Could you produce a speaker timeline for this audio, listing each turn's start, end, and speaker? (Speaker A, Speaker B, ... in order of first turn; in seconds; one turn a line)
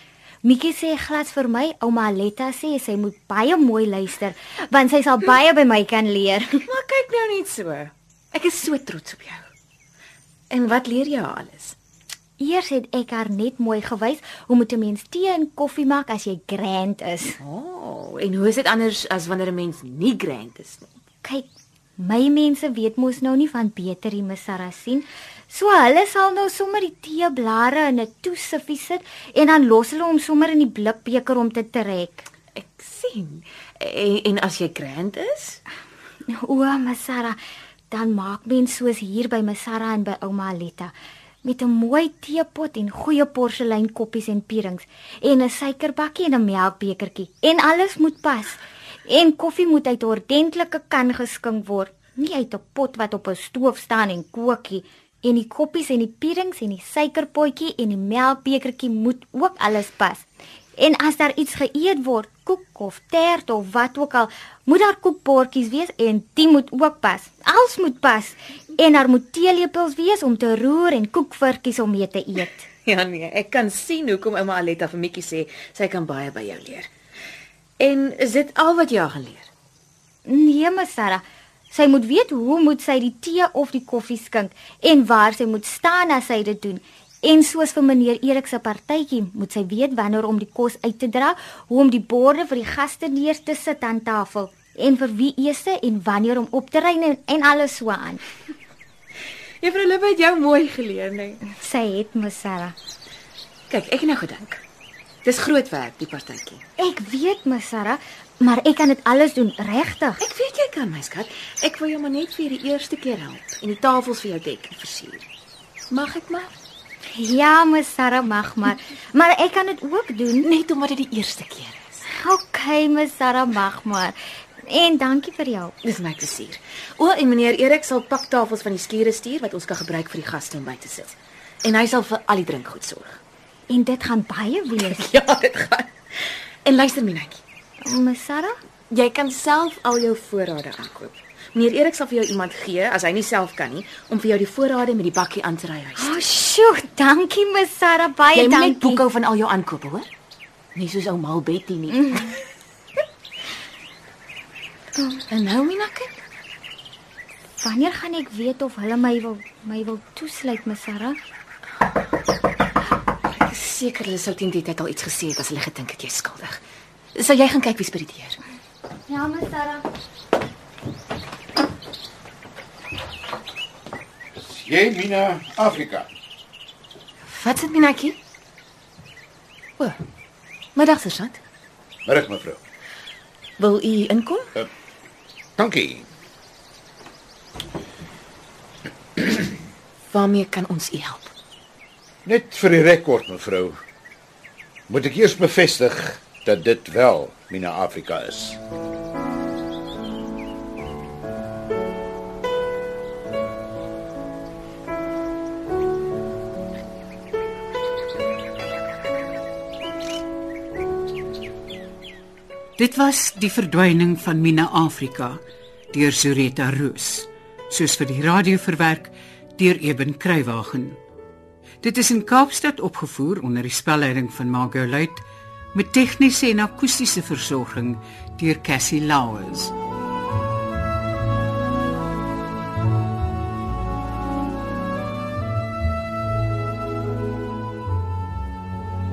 Speaker A: 0.4-6.6
Speaker B: 6.7-9.5
Speaker B: 10.5-11.7
Speaker A: 12.4-17.4
Speaker B: 17.4-20.9
Speaker A: 22.0-32.2
Speaker B: 32.5-35.6
Speaker A: 36.3-37.4
Speaker A: 37.9-40.9
Speaker A: 41.4-60.2
Speaker A: 60.8-72.7
Speaker B: 72.8-76.9
Speaker B: 77.8-79.5
Speaker A: 80.2-98.2
Speaker B: 99.6-101.4
Speaker A: 101.4-102.7
Speaker B: 103.7-104.6
Speaker B: 105.2-106.6
Speaker A: 106.8-110.2
Speaker B: 110.2-115.2
Speaker B: 115.9-116.5
Speaker A: 117.2-120.5
Speaker B: 120.4-122.0
Speaker A: 122.1-125.8
Speaker B: 125.8-133.2
Speaker A: 133.7-135.1
Speaker B: 134.9-135.9
Speaker B: 136.6-137.4
Speaker A: 137.8-138.6
Speaker B: 138.9-146.1
Speaker A: 145.9-149.1
Speaker B: 148.3-150.1
Speaker B: 150.7-152.2
Speaker A: 151.9-152.2
Speaker A: 155.0-155.2
Speaker B: 155.3-156.2
Speaker A: 157.6-161.2
Speaker B: 163.3-166.6
Speaker B: 167.1-168.3
Speaker A: 169.1-169.8
Speaker C: 174.4-176.1
Speaker B: 177.3-178.1
Speaker B: 180.8-181.3
Speaker C: 182.1-182.6
Speaker B: 183.6-184.3
Speaker C: 185.6-186.1
Speaker B: 190.1-191.3
Speaker C: 192.2-193.8
Speaker C: 194.9-198.6
Speaker D: 212.8-215.4
Speaker D: 215.9-221.0
Speaker D: 221.8-229.7